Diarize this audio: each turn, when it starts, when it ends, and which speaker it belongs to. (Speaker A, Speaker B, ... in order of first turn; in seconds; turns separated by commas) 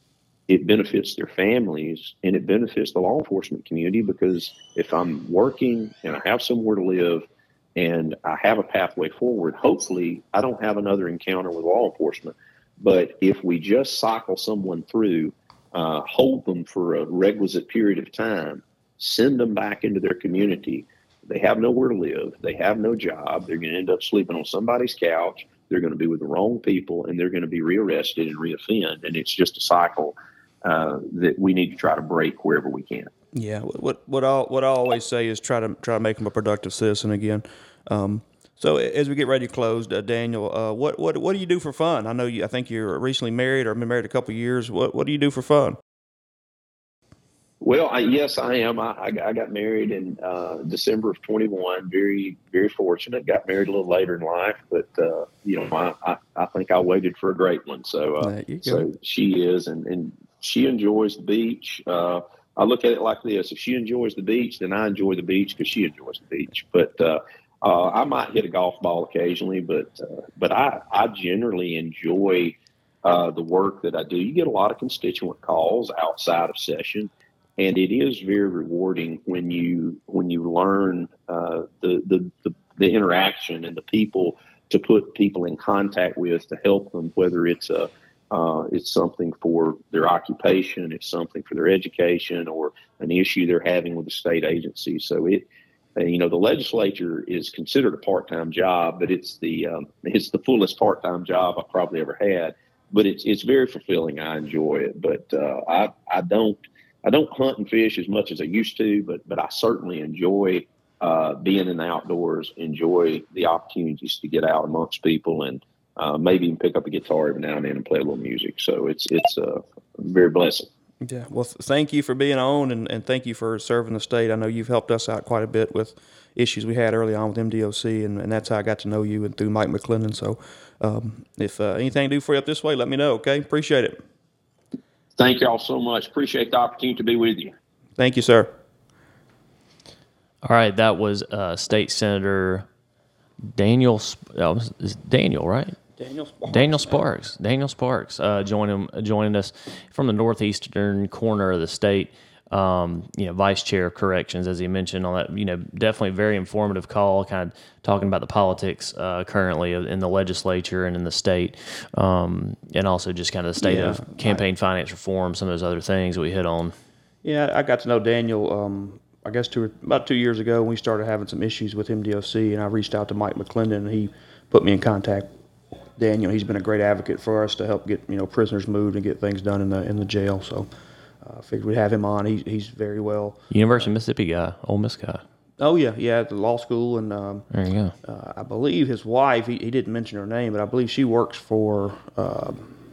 Speaker A: 0.5-33.1, Speaker B: 33.3-45.8, Speaker A: 47.6-95.5, Speaker B: 58.2-58.9, Speaker A: 96.0-120.7, Speaker B: 121.0-134.0, Speaker A: 135.2-137.6, Speaker B: 138.0-138.5, Speaker C: 140.4-142.7, Speaker C: 143.4-145.8, Speaker B: 146.0-147.1, Speaker C: 146.5-166.8, Speaker B: 163.6-164.4, Speaker B: 167.2-175.3, Speaker B: 176.0-180.7, Speaker B: 181.2-183.9, Speaker C: 183.5-185.2, Speaker B: 185.6-187.5, Speaker C: 187.5-187.9, Speaker B: 188.0-192.8